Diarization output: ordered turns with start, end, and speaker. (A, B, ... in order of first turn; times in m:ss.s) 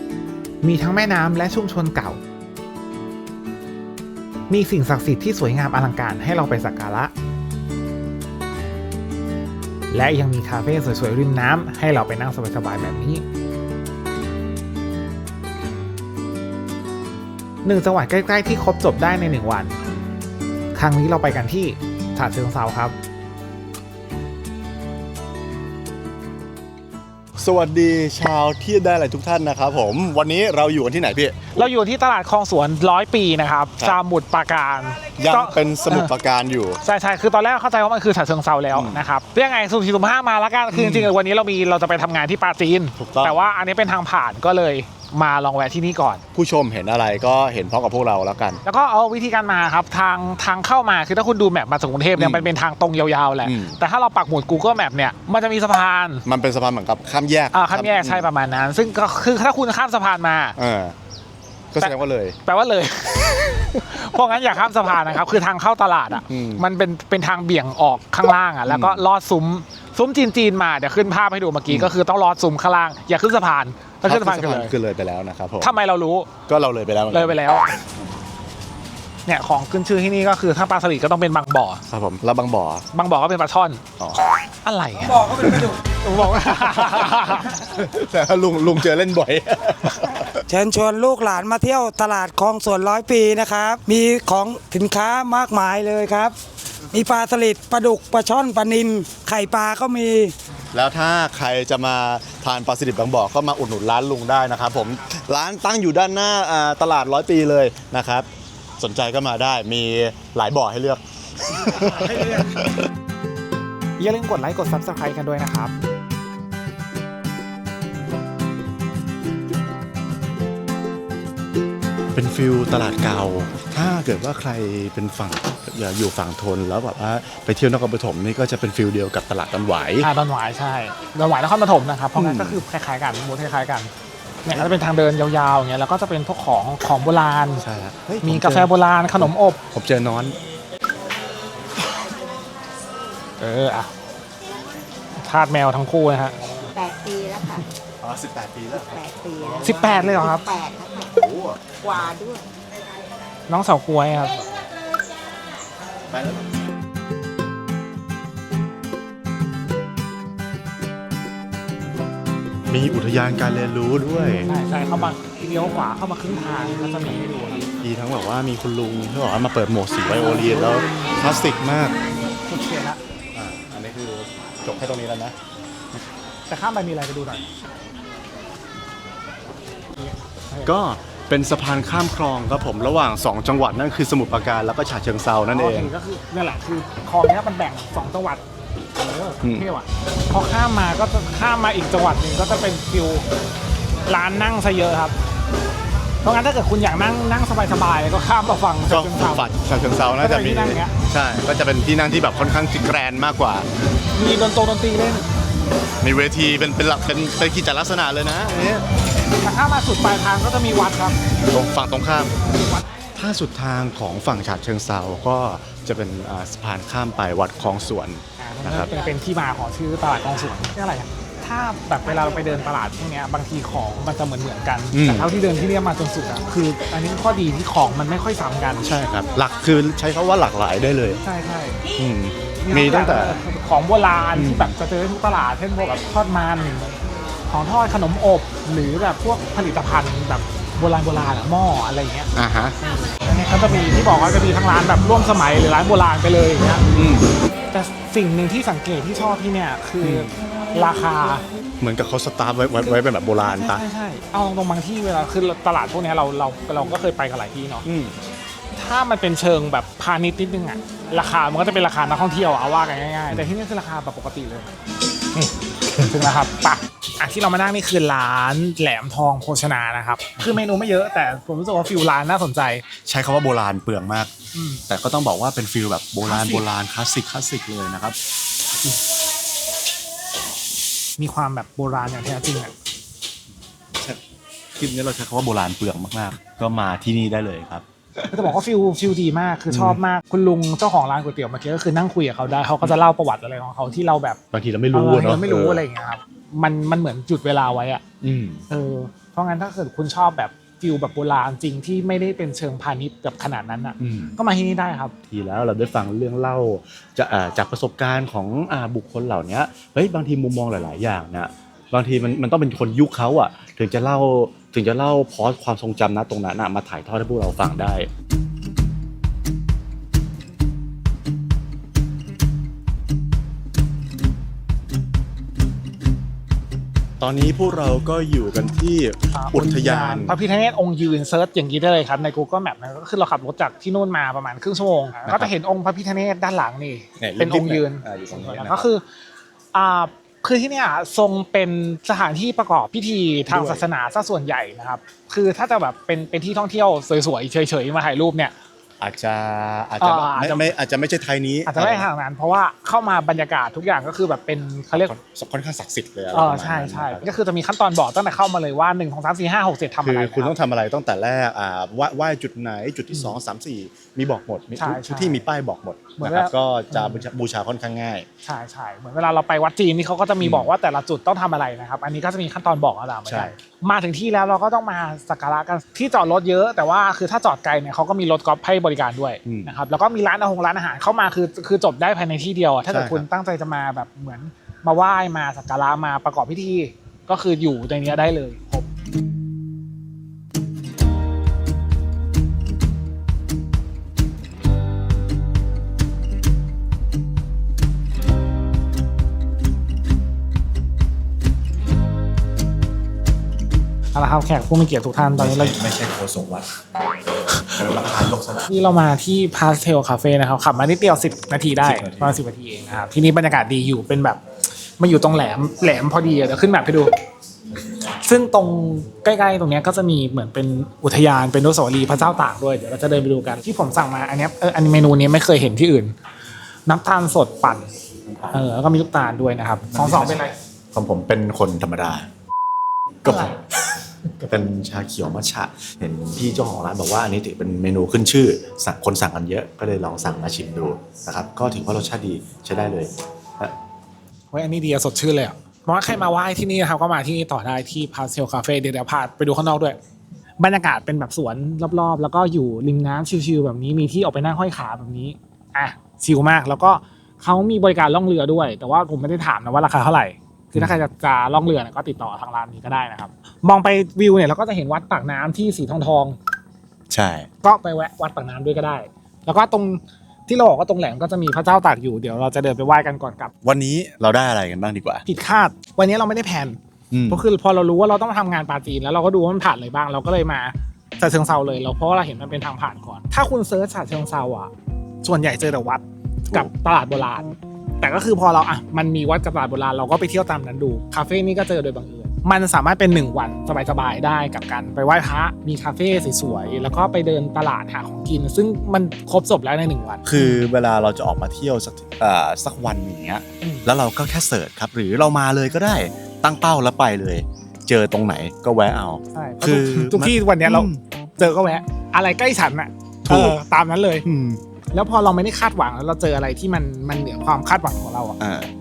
0:00.6-0:02.2 A
0:04.5-0:07.1 A
0:09.9-0:13.2 A
0:17.6-0:19.8 A
0:20.7-0:22.9 A
0:27.4-0:31.5 B
0:31.5-0:36.1 A
0:35.2-0:36.8 B
0:36.8-0:46.2 A
0:38.7-0:39.0 B
0:40.7-0:41.1 B
0:43.0-0:43.3 B
0:46.3-0:48.6 B
0:48.6-0:56.2 A
0:52.2-0:52.5 B
0:53.4-0:53.8 B
0:56.2-0:58.3 B
0:57.5-1:00.6 A
1:00.6-1:01.0 B
1:01.7-1:02.4 B
1:01.8-1:14.7 A
1:06.3-1:06.6 B
1:08.7-1:09.0 B
1:11.7-1:12.0 B
1:14.0-1:15.7 B
1:15.6-1:16.3 A
1:16.5-1:17.4 B
1:17.1-1:17.8 A
1:19.2-1:21.8 A
1:21.9-1:22.8 B
1:22.9-1:23.8 A
1:24.4-1:27.6 A
1:25.2-1:25.7 C
1:26.9-1:30.4 B
1:30.5-1:36.4 C
1:36.9-1:40.3 C
1:40.7-1:48.3 B
1:48.8-1:52.8 B
1:51.6-1:52.6 A
1:54.0-1:55.7 A
2:02.1-2:10.1 B
2:10.0-2:13.9 A
2:12.2-2:12.6 B
2:14.4-2:17.6 A
2:17.6-2:20.4 B
2:18.2-2:19.6 A
2:23.4-2:23.9 A
2:25.2-2:26.4 A
2:26.7-2:27.6 D
2:28.0-2:30.3 B
2:28.9-2:29.7 D
2:29.6-2:30.5 A
2:30.2-2:31.1 D
2:31.1-2:31.7 B
2:31.8-2:32.5 D
2:33.5-2:34.5 A
2:36.1-2:36.5 B
2:42.7-2:44.5 B
2:44.3-2:47.7 A
2:47.8-2:52.0 B
2:50.0-2:51.4 A
2:52.1-2:53.0 A
2:53.3-2:55.4 B
2:56.5-2:57.5 A
2:59.9-3:00.7 A
3:00.6-3:05.9 B
3:05.5-3:08.4 A
3:08.9-3:13.2 A
3:14.1-3:15.1 A
3:16.2-3:19.5 A
3:18.9-3:23.7 B
3:20.1-3:20.9 A
3:24.1-3:25.3 A
3:26.0-3:28.8 B
3:29.4-3:31.2 A
3:31.5-3:32.4 B
3:32.5-3:32.8 A
3:33.2-3:38.9 B
3:38.4-3:48.9 A
3:44.9-3:45.3 B
3:48.8-3:51.2 B
3:51.2-3:51.8 A
3:52.0-3:53.4 B
3:52.6-3:56.9 A
3:54.3-3:54.8 B
3:57.5-4:02.3 A
4:02.4-4:02.8 B
4:03.1-4:06.8 A
4:06.9-4:07.3 B
4:07.7-4:11.4 A
4:10.0-4:10.4 B
4:11.8-4:13.8 B
4:12.8-4:17.8 A
4:17.8-4:18.2 B
4:18.7-4:24.7 A
4:25.4-4:32.8 A
4:33.0-4:34.3 B
4:34.5-4:34.8 A
4:34.9-4:38.2 B
4:36.2-4:36.6 A
4:41.2-4:42.7 A
4:44.8-4:48.5 B
4:48.3-4:54.4 A
4:49.7-4:50.0 B
4:54.5-4:55.8 B
4:54.9-4:58.0 A
4:58.2-4:58.6 B
4:58.7-5:05.1 A
5:04.0-5:04.4 B
5:05.3-5:18.1 B
5:27.2-5:30.4 B
5:29.3-5:39.0 A
5:35.3-5:35.5 B
5:37.2-5:38.9 B
5:39.7-5:48.5 A
5:43.5-5:43.8 B
5:49.0-5:52.1 B
5:50.0-5:50.7 A
5:51.6-5:55.1 A
5:54.9-5:57.3 B
5:56.3-6:00.5 A
6:00.0-6:08.2 B
6:04.8-6:05.4 A
6:06.2-6:07.2 A
6:08.4-6:28.9 A
6:10.4-6:10.7 B
6:13.3-6:13.5 B
6:19.4-6:19.7 B
6:22.9-6:23.2 B
6:44.1-6:45.8 A
6:45.4-6:46.7 B
6:47.5-6:48.7 B
6:48.7-6:54.4 A
6:51.8-6:52.4 B
6:55.0-6:57.1 A
6:58.1-7:06.1 A
7:06.8-7:07.9 A
7:08.5-7:10.5 A
7:09.9-7:12.3 B
7:13.2-7:13.6 B
7:13.2-7:13.6 A
7:14.3-7:23.7 B
7:24.5-7:30.0 A
7:30.6-7:46.4 A
7:47.1-7:47.5 B
7:47.6-7:53.5 A
7:53.6-7:55.2 B
7:55.3-7:56.8 A
7:57.1-7:57.4 B
7:57.3-8:04.7 A
8:05.2-8:20.6 A
8:20.2-8:31.0 B
8:23.6-8:23.9 A
8:29.3-8:34.2 A
8:33.2-8:33.6 B
8:34.2-8:34.6 B
8:34.9-8:38.4 A
8:38.4-8:38.7 B